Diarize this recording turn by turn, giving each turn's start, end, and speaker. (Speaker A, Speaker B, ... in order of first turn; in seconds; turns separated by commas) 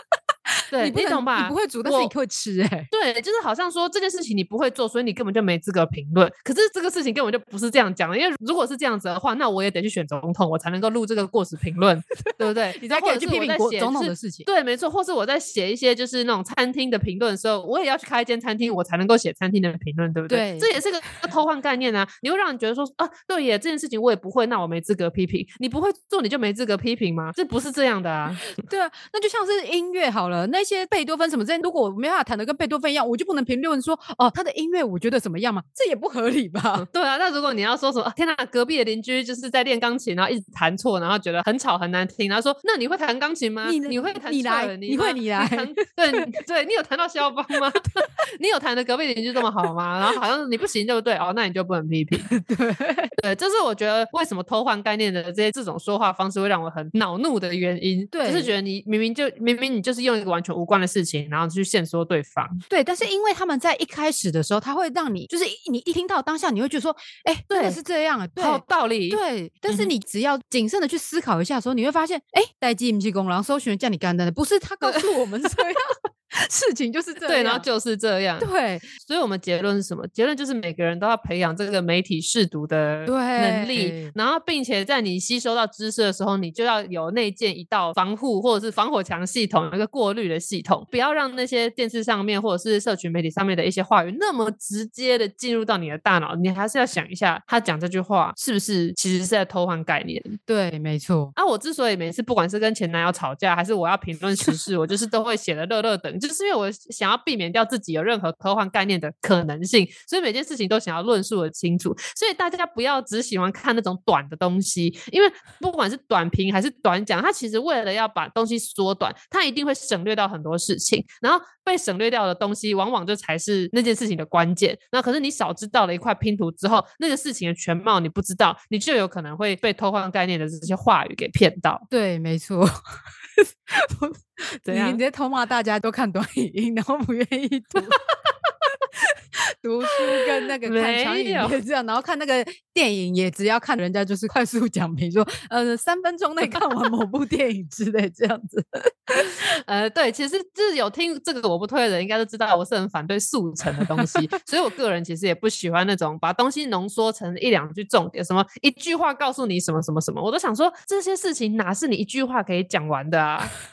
Speaker A: 0.7-2.1, Speaker B: 0.8-2.9, Speaker A: 2.9-28.4, Speaker B: 12.4-14.5, Speaker B: 20.3-20.7, Speaker B: 28.4-36.9, Speaker A: 36.8-52.3, Speaker B: 43.6-46.2, Speaker B: 52.3-53.1, Speaker A: 53.2-62.6, Speaker B: 58.1-58.5, Speaker B: 62.7-77.7, Speaker A: 67.5-67.8, Speaker A: 68.3-69.9, Speaker A: 77.2-100.3, Speaker B: 78.4-78.9, Speaker B: 83.0-84.1, Speaker B: 100.5-101.3, Speaker A: 101.3-131.8, Speaker B: 131.9-132.7, Speaker B: 133.4-138.0, Speaker A: 134.7-135.0, Speaker A: 137.8-138.1, Speaker B: 139.6-149.3, Speaker A: 140.6-141.6, Speaker A: 149.4-163.5